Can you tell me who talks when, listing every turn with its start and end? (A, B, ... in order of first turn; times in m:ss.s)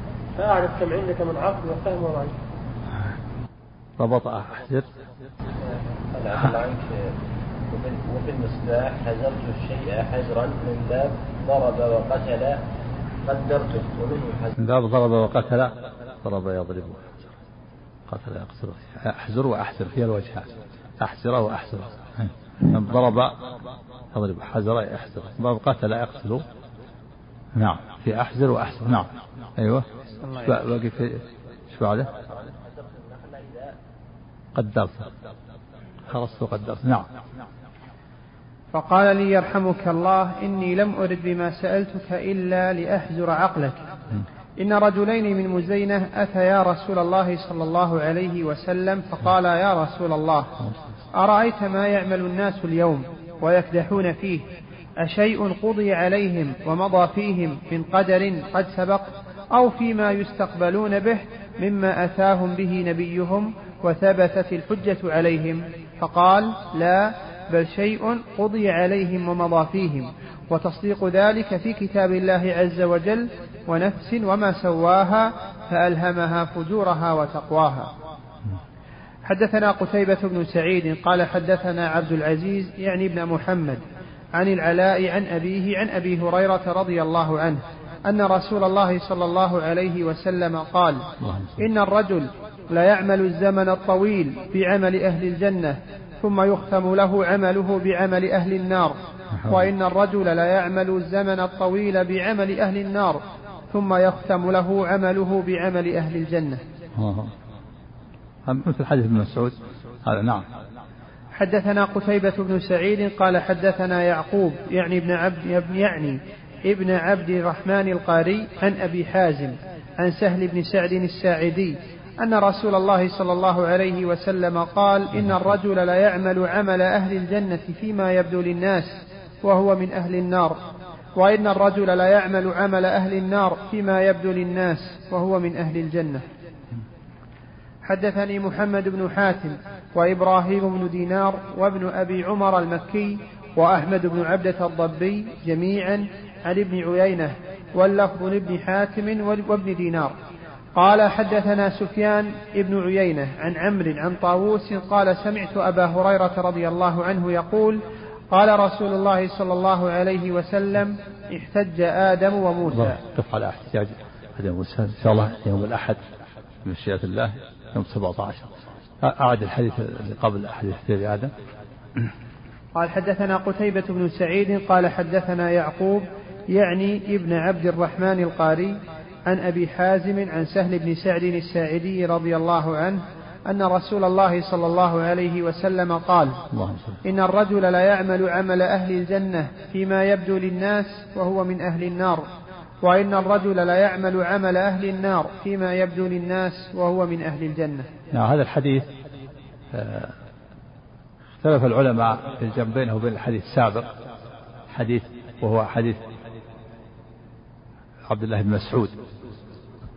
0:00.4-0:02.3 A
0:04.0-0:04.9 B
0:06.1-0:07.2 C
0:07.7-0:12.6 C
0:13.2-0:14.6 C
0:14.6-0:15.7 B
0:16.2-0:17.1 B
0:18.1-0:23.4 B
0:24.1-0:26.4 B
0:27.6-0:29.9 B
0:30.2-0:30.6 D
0:30.4-0:32.1 B
0:32.1-0:33.8 C
0:34.6-0:35.1 B
0:36.1-0:37.1 B
0:38.7-0:43.9 D
0:44.6-0:50.5 D
0:51.1-0:54.4 D
0:55.0-1:17.9 D
1:19.3-1:23.8 D
1:24.4-1:31.0 D
1:31.2-1:31.6 B
1:31.6-1:46.6 D
1:47.0-1:47.3 B
1:48.4-1:50.4 B
1:51.4-2:10.6 D
2:11.2-2:16.2 D
2:17.8-2:30.1 D
2:30.8-2:37.8 D
2:38.3-2:43.0 D
2:42.8-2:46.0 B
2:46.6-2:48.5 B
2:49.0-2:51.3 B
2:52.8-3:06.4 D
3:06.5-3:07.0 B
3:07.0-3:12.3 D
3:12.8-3:17.9 D
3:18.1-3:18.9 B
3:19.7-3:20.1 B
3:21.4-3:23.9 B
3:24.7-3:26.0 B
3:28.1-3:29.0 B